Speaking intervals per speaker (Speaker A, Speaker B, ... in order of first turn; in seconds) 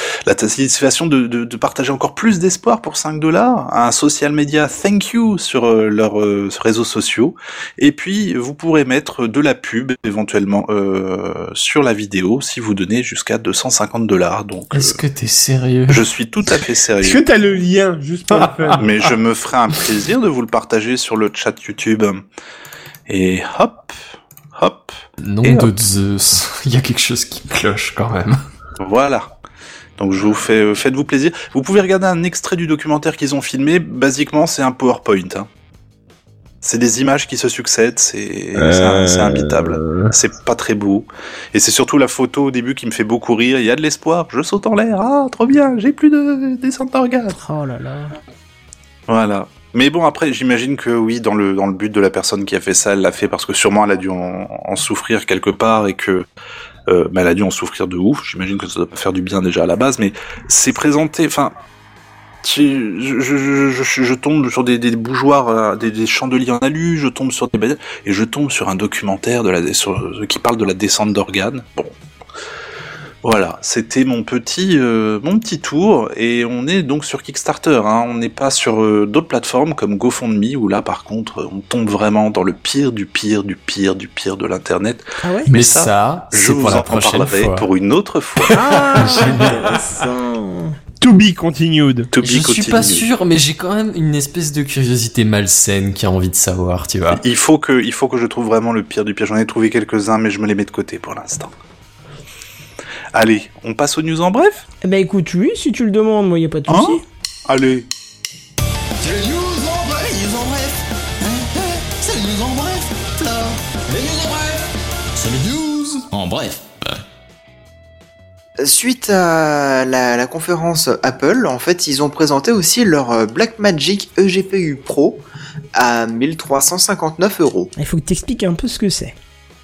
Speaker A: 0.3-15.0, 15.9-17.3, 18.8-22.2, 23.1-24.0, 24.6-25.7, 28.8-29.3, 30.0-35.5, 36.6-47.4, 49.1-56.2, 56.9-61.5, 62.4-71.9, 73.2-89.4, 92.1-93.1, 97.1-101.5, 103.1-104.7, 106.7-107.9
Speaker B: 14.7-16.1, 25.2-28.4, 85.5-87.7, 88.5-89.5, 92.2-97.2
Speaker C: 17.0-18.9, 91.0-92.1
Speaker D: 38.5-40.1, 109.0-114.6, 115.2-117.0
Speaker E: 47.3-48.2, 85.2-85.5, 88.5-90.8, 104.8-107.0, 127.8-129.2
Speaker F: 118.6-127.7